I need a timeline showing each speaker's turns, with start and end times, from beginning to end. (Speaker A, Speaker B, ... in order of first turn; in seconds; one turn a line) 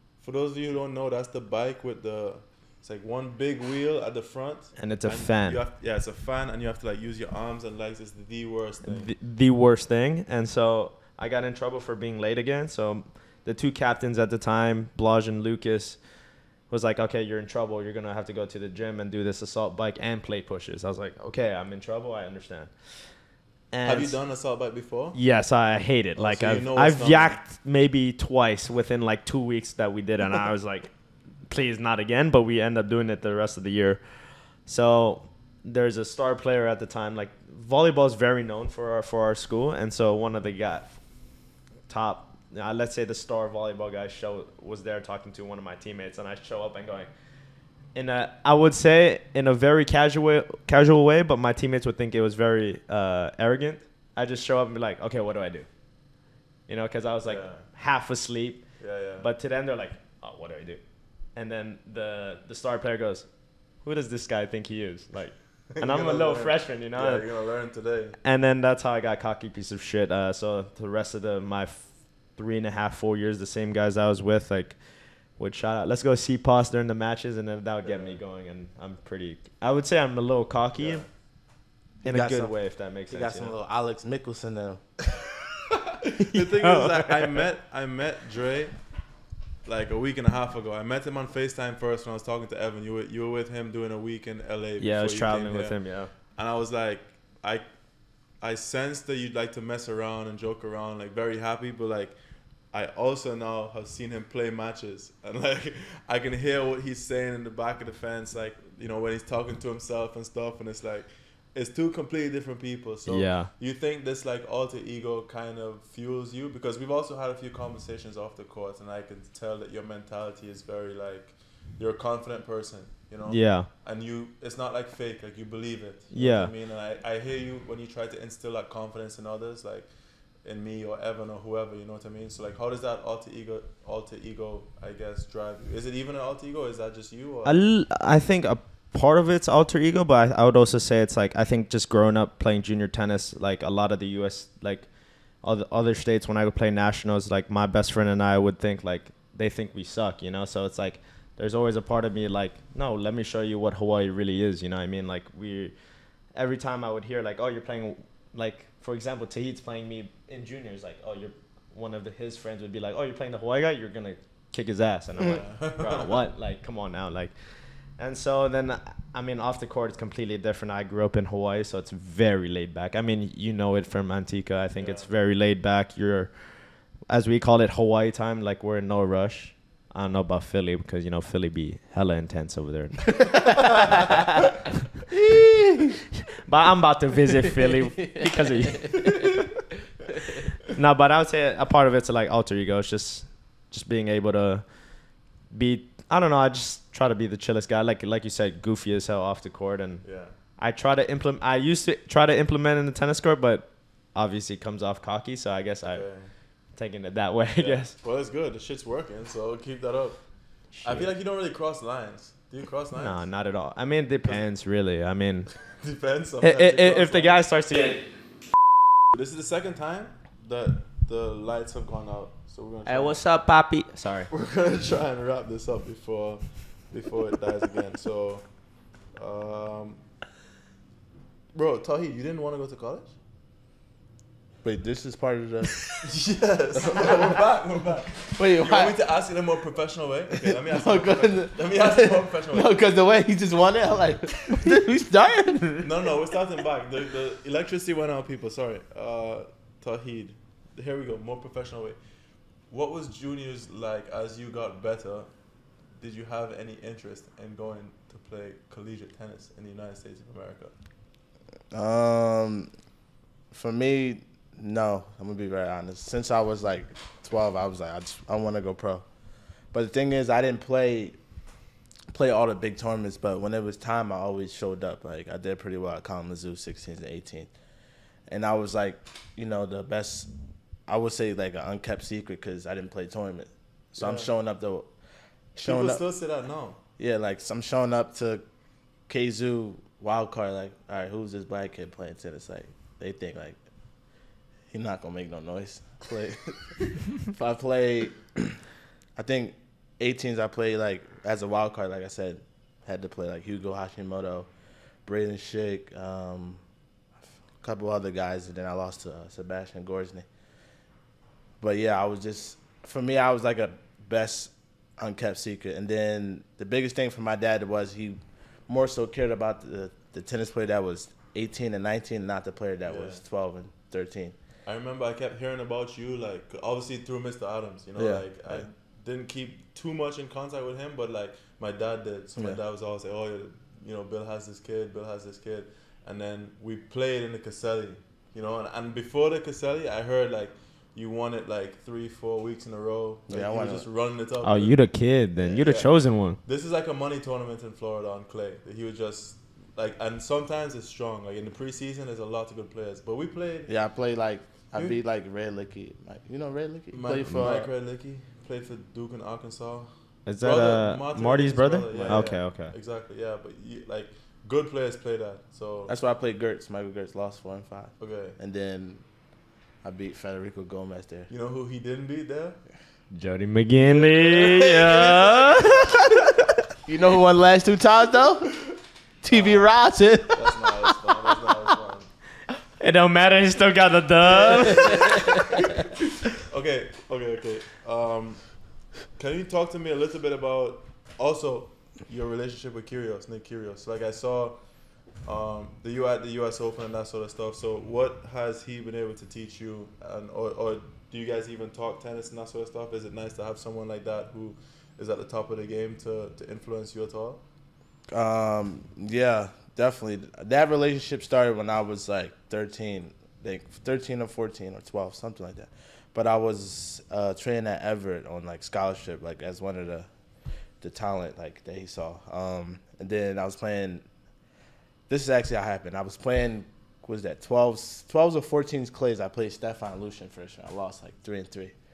Speaker A: 0.2-9.1
Speaker B: 4.8-5.6
Speaker B: 8.8-16.0
Speaker B: 16.7-23.0
Speaker B: 23.7-24.2
Speaker A: 23.9-25.2
Speaker B: 25.1-30.9
Speaker A: 26.2-27.4
Speaker B: 31.5-41.0
Speaker B: 41.9-47.1
Speaker B: 47.9-55.7
Speaker B: 56.7-60.8
Speaker A: 57.3-57.7
Speaker A: 58.8-59.3
Speaker B: 61.4-63.3
Speaker B: 63.8-67.3
Speaker A: 65.7-68.2
Speaker B: 68.2-81.1
Speaker A: 77.8-78.2
Speaker A: 80.8-81.1
Speaker B: 82.0-83.5
Speaker C: 82.1-84.8
Speaker A: 86.1-89.1
Speaker B: 86.2-87.5
Speaker A: 89.6-97.7
Speaker B: 94.8-96.1
Speaker A: 98.3-102.2
Speaker A: 102.7-137.6
Speaker B: 113.1-113.5
Speaker B: 123.3-123.7
Speaker B: 126.1-126.5
Speaker B: 137.4-144.9
Speaker B: 145.4-155.8
Speaker B: 156.3-176.4
Speaker A: 165.2-166.2
Speaker A: 174.8-175.1
Speaker B: 177.1-184.4
Speaker C: 185.1-185.9
Speaker B: 186.3-189.4
Speaker B: 190.7-194.8
Speaker B: 195.5-207.9
Speaker A: 200.0-200.3
Speaker A: 205.8-206.3
Speaker A: 207.6-213.3
Speaker B: 210.7-211.1
Speaker B: 213.0-215.5
Speaker A: 215.7-217.4
Speaker B: 216.4-218.1
Speaker A: 219.1-223.2
Speaker B: 222.8-224.3
Speaker A: 224.3-230.1
Speaker A: 231.5-233.2
Speaker C: 234.6-236.0
Speaker A: 235.9-242.8
Speaker C: 236.7-237.4
Speaker C: 238.3-238.9
Speaker C: 240.5-246.1
Speaker A: 245.8-252.0
Speaker A: 252.7-255.3
Speaker A: 255.9-260.7
Speaker C: 261.7-262.7
Speaker C: 263.5-269.1
Speaker C: 269.7-271.2
Speaker C: 272.1-277.5
Speaker C: 278.3-280.3
Speaker C: 280.9-284.9
Speaker A: 284.0-284.3
Speaker C: 285.6-286.0
Speaker A: 285.6-286.8
Speaker C: 287.0-288.4
Speaker C: 289.1-293.6
Speaker C: 294.7-298.6
Speaker C: 299.2-304.5
Speaker C: 305.1-306.6
Speaker C: 307.4-310.3
Speaker C: 311.6-324.4
Speaker A: 322.9-323.2
Speaker A: 324.7-344.8
Speaker C: 328.0-328.6
Speaker C: 343.3-343.9
Speaker B: 344.4-346.4
Speaker A: 345.5-353.8
Speaker C: 353.7-357.7
Speaker A: 354.7-355.0
Speaker A: 356.9-365.9
Speaker B: 360.3-362.7
Speaker C: 361.9-362.3
Speaker C: 365.9-369.0
Speaker A: 368.0-368.4
Speaker C: 369.8-371.3
Speaker A: 371.3-372.6
Speaker B: 373.1-376.3
Speaker A: 373.8-375.9
Speaker C: 376.9-378.6
Speaker C: 379.2-380.6
Speaker A: 379.3-379.7
Speaker A: 380.3-382.1
Speaker B: 382.8-385.6
Speaker A: 384.2-407.4
Speaker C: 408.1-420.1
Speaker C: 420.8-424.1
Speaker C: 425.1-431.7